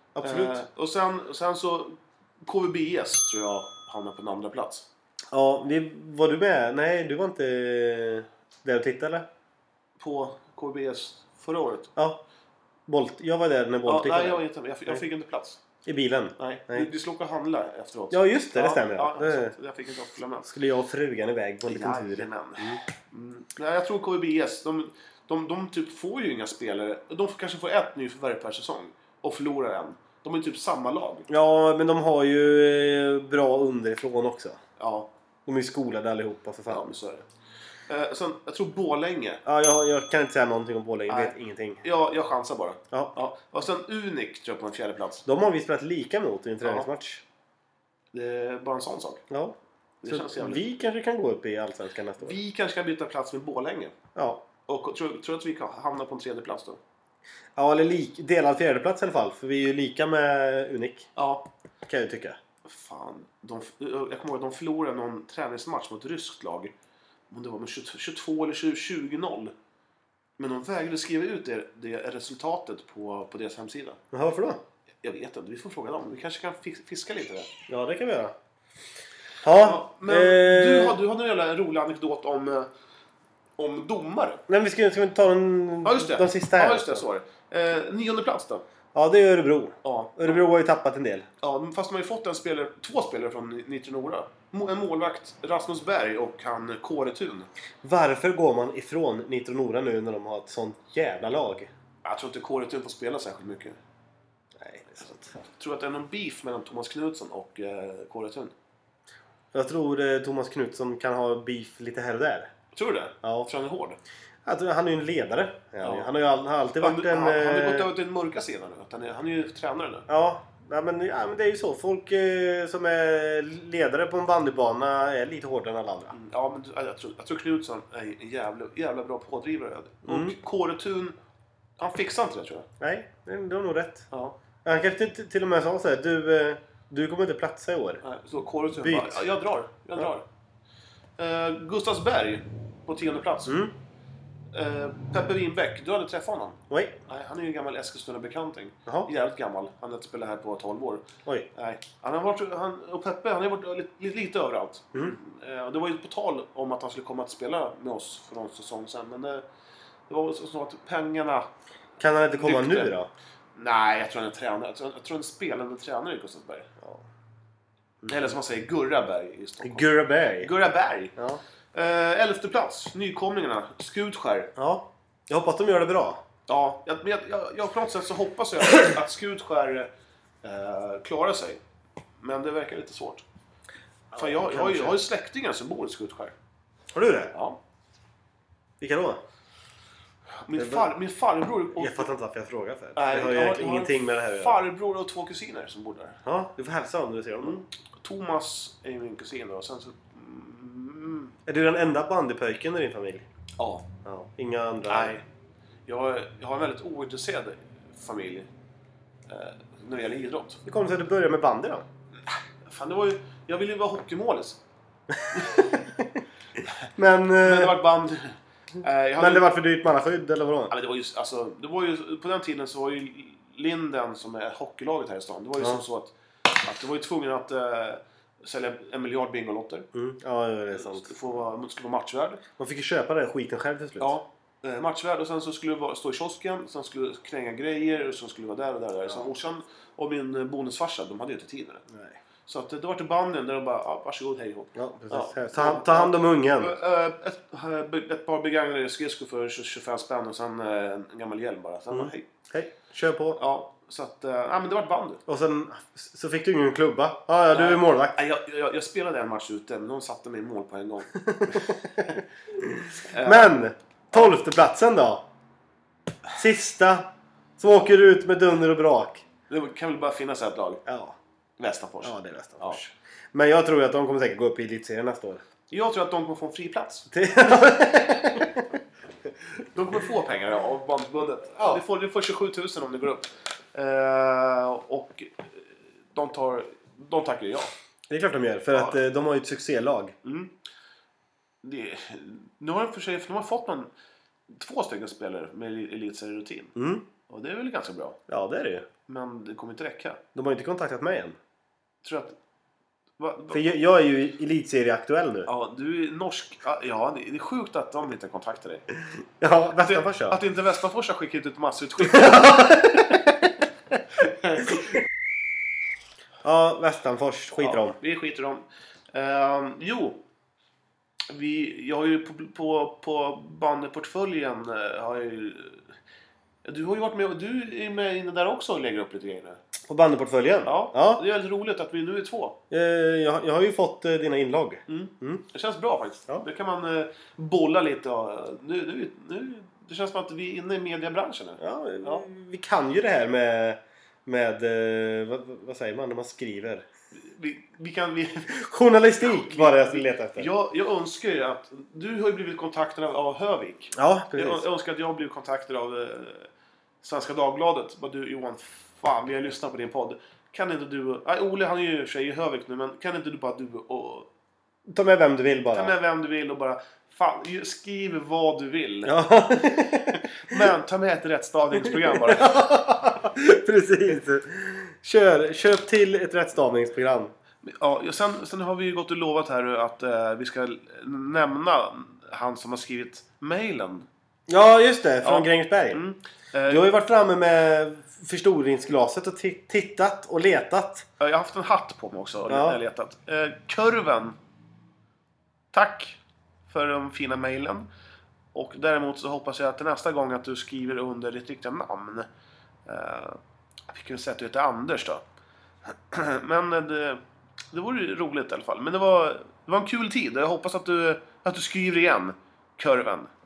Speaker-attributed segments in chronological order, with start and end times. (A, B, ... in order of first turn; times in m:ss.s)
0:00.2-0:00.6 A
0:00.2-0:04.9 B
0:05.3-0:09.3 A
0:10.0-0:11.9 B
0:12.0-0:12.2 A
0:12.9-0:15.0 A
0:13.9-0:15.6 B
0:15.8-0:16.9 A
0:16.4-0:20.5 B
0:18.1-0:19.5 A
0:20.5-0:22.8 A
0:21.7-0:31.3 B
0:31.3-0:34.6 A
0:34.8-0:35.1 B
0:35.5-0:36.9 A
0:36.7-0:37.3 B
0:37.9-0:39.4 B
0:39.4-0:41.8 A
0:41.1-0:45.3 B
0:45.3-0:47.2 A
0:46.6-0:46.9 B
0:48.1-0:49.2 B
0:49.3-0:52.4 A
0:50.0-0:50.6 B
0:52.2-0:54.0 B
0:54.2-0:54.4 A
0:54.7-0:56.8 B
0:57.6-1:01.1 A
1:01.2-1:01.5 B
1:01.8-1:02.4 A
1:02.6-1:06.7 B
1:07.3-1:09.5 B
1:10.4-1:14.0 B
1:14.1-1:14.6 A
1:15.0-1:17.5 B
1:17.7-1:18.4 A
1:19.4-1:21.0 A
1:19.5-1:22.7 B
1:23.6-1:24.4 B
1:24.5-1:27.0 A
1:25.8-1:28.6 B
1:28.9-1:31.3 A
1:29.8-1:30.4 B
1:31.4-1:37.5 B
1:37.8-1:41.7 A
1:42.0-1:43.8 B
1:44.6-1:45.3 A
1:45.5-1:48.5 B
1:49.5-1:52.5 A
1:52.7-1:54.0 B
1:53.2-1:53.5 A
1:54.4-1:57.9 A
1:55.8-1:56.1 B
1:56.8-2:00.1 B
2:00.1-2:06.2 A
2:06.1-2:11.2 B
2:10.1-2:10.4 A
2:11.8-2:12.7 B
2:12.8-2:14.1 A
2:14.1-2:14.4 B
2:14.6-2:18.0 A
2:18.0-2:20.2 B
2:18.8-2:19.2 A
2:21.2-2:23.6 B
2:23.5-2:23.7 A
2:24.5-2:39.4 B
2:26.7-2:27.0 A
2:40.1-2:41.5 B
2:42.0-2:43.1 A
2:42.4-2:42.9 B
2:43.6-2:46.7 B
2:48.0-2:48.3 A
2:48.1-2:51.2 B
2:49.6-2:50.5 A
2:51.2-2:51.4 A
2:51.7-2:54.5 B
2:54.6-2:56.2 A
2:56.5-2:59.9 B
3:00.4-3:01.6 B
3:02.2-3:03.2 B
3:04.1-3:05.0 A
3:04.2-3:06.3 B
3:06.9-3:07.4 A
3:07.3-3:07.6 B
3:08.8-3:09.2 A
3:10.4-3:12.1 B
3:10.6-3:10.9 A
3:11.8-3:14.6 A
3:13.0-3:16.2 B
3:16.2-3:17.6 A
3:17.4-3:21.3 B
3:21.5-3:23.2 A
3:23.6-3:23.9 B
3:24.0-3:25.1 A
3:24.9-3:25.2 B
3:25.9-3:28.5 B
3:29.3-3:30.6 B
3:30.7-3:31.9 A
3:32.6-3:34.6 B
3:35.2-3:36.1 A
3:35.3-3:35.7 B
3:37.0-3:37.8 A
3:37.4-3:39.5 B
3:39.2-3:40.7 A
3:40.7-3:49.9 B
3:49.9-3:51.1 A
3:50.8-3:52.4 B
3:52.6-3:54.2 A
3:54.0-4:01.8 B
4:01.9-4:02.2 A
4:02.5-4:12.2 B
4:04.8-4:06.8 A
4:11.9-4:13.4 A
4:13.4-4:15.2 B
4:15.3-4:18.2 A
4:17.5-4:22.0 B
4:21.2-4:25.3 A
4:23.1-4:23.6 B
4:26.4-4:29.2 A
4:29.5-4:30.8 B
4:30.9-4:31.2 A
4:31.6-4:32.8 B
4:32.0-4:35.4 A
4:35.7-4:37.1 B
4:37.1-4:38.6 A
4:39.6-4:47.7 B
4:48.1-4:50.2 A
4:48.7-4:49.0 B
4:50.2-4:50.5 B
4:51.6-4:53.9 B
4:54.5-4:56.8 B
4:56.8-4:57.0 A
4:57.3-4:58.2 B
4:58.3-4:58.9 A
4:59.1-5:00.2 B
5:00.4-5:01.4 A
5:02.0-5:02.4 B
5:03.2-5:03.8 B
5:03.5-5:05.5 A
5:05.5-5:08.9 B
5:09.4-5:10.4 A
5:09.8-5:12.8 B
5:12.0-5:13.3 A
5:14.2-5:14.8 B
5:16.4-5:18.0 A
5:17.6-5:20.2 B
5:21.3-5:25.9 B
5:26.6-5:29.6 B
5:29.8-5:31.2 A
5:30.6-5:32.6 B
5:32.7-5:35.4 A
5:34.9-5:42.3 B
5:41.6-5:46.9 A
5:47.1-5:48.6 B
5:48.5-5:50.5 A
5:49.2-5:56.5 B
5:53.9-5:54.6 A
5:57.0-6:04.3 B
6:04.9-6:05.9 A
6:05.7-6:09.2 B
6:09.0-6:10.6 A
6:09.9-6:12.6 B
6:11.8-6:17.3 A
6:17.6-6:24.1 B
6:24.5-6:26.0 A
6:25.2-6:26.9 B
6:26.7-6:31.1 A
6:31.2-6:34.4 B
6:32.5-6:32.8 A
6:35.7-6:37.9 B
6:38.5-6:42.3 B
6:42.9-6:45.2 B
6:46.1-6:53.3 B